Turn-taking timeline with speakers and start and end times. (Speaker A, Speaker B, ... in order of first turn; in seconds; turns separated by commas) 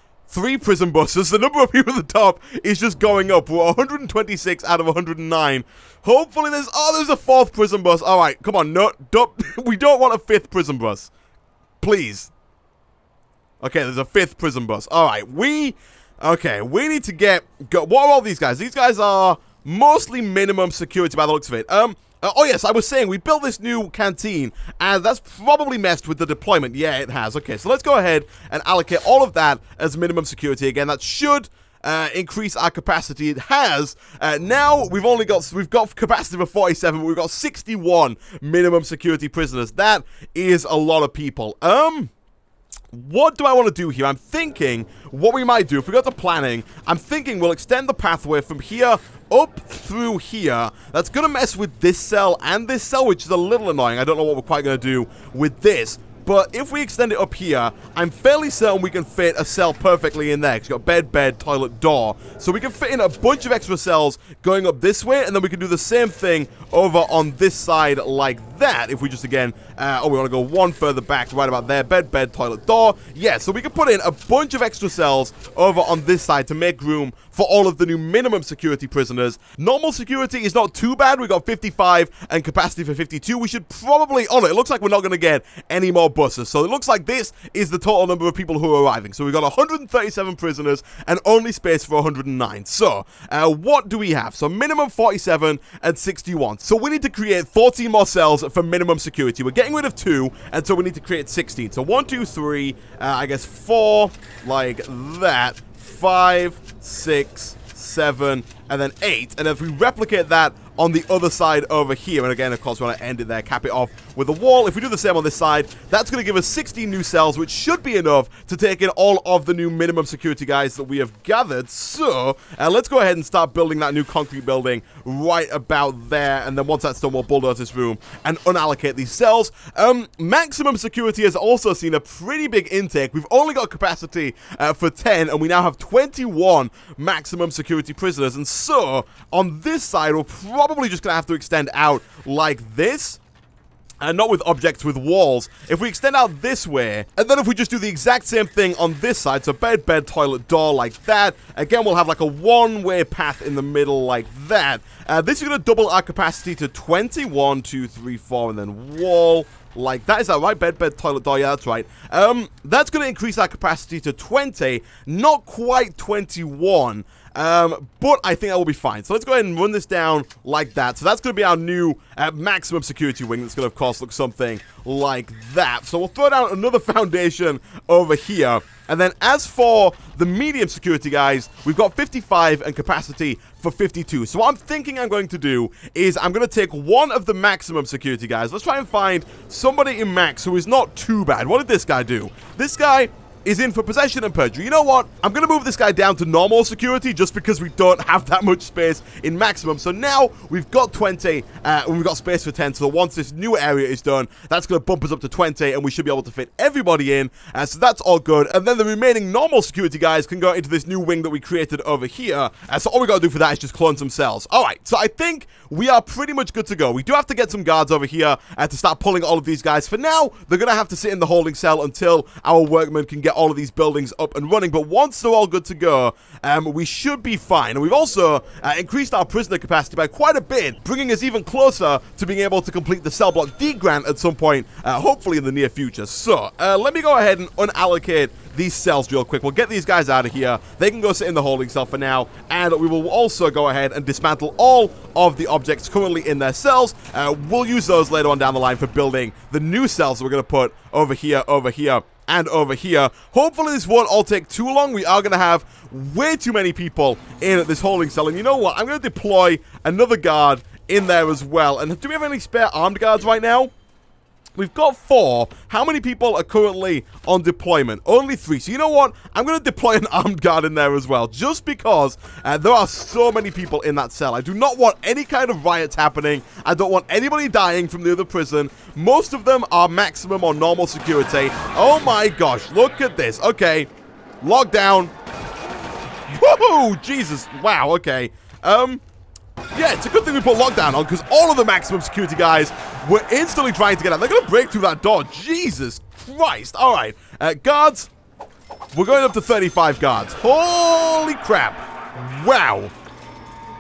Speaker A: 0.3-11.1, Speaker A: 11.8-12.3, Speaker A: 13.6-42.1, Speaker A: 42.9-143.2, Speaker A: 144.0-263.7, Speaker A: 264.6-283.9, Speaker A: 284.4-285.1, Speaker A: 286.3-289.0, Speaker A: 289.7-298.1, Speaker A: 298.9-302.9